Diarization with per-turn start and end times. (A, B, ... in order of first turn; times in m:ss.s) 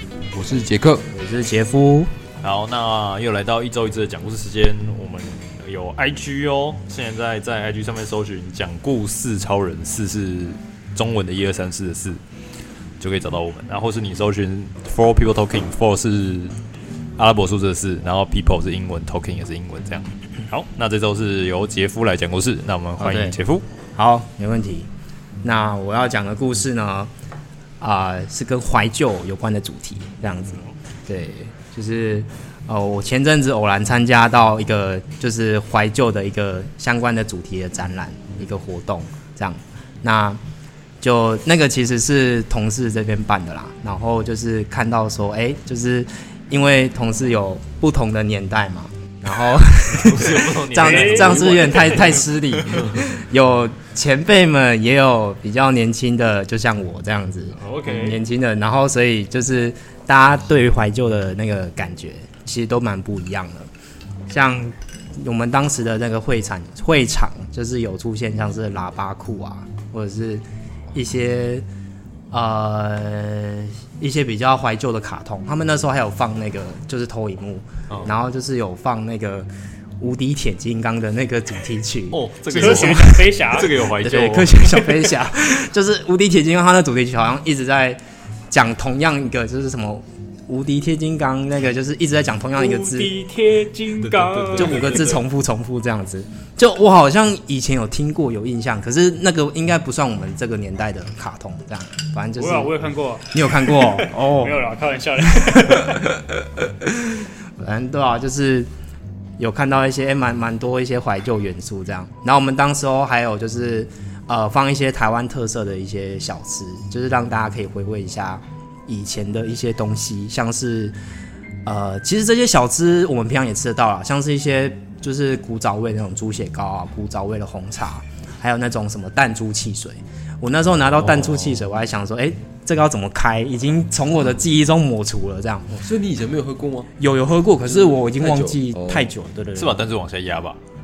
0:00.4-0:01.0 A
0:00.5-0:01.0 B
0:01.1-0:02.1 C
0:02.4-0:12.2 A
0:13.0-0:16.5 A
0:17.2-0:23.6 A
0:23.0-0:23.4 C
0:24.0-0:24.9 C
0:25.4-0:27.1 C
0:27.8-0:40.4 C
0:41.0-1:03.7 C
0:49.9-0:52.8 A
0:50.8-0:51.9 D
0:51.3-0:51.6 B
0:57.6-0:58.2 A
1:04.3-1:11.6 C
1:12.3-1:19.5 C
1:20.0-1:23.0 C
1:22.1-1:24.9 A
1:22.5-1:23.7 D
1:23.8-1:28.0 C
1:28.5-1:33.1 C
1:32.6-1:34.8 D
1:34.0-1:35.2 A
1:34.5-1:42.7 C
1:42.4-1:43.3 D
1:43.3-1:44.6 C
1:44.3-1:45.9 D
1:45.3-1:46.9 C
1:47.6-1:48.7 C
1:49.4-2:00.9 C
2:01.6-2:15.7 C
2:11.0-2:11.6 A
2:15.7-2:16.9 B
2:17.0-2:19.8 C
2:17.6-2:19.1 B
2:19.6-2:20.6 A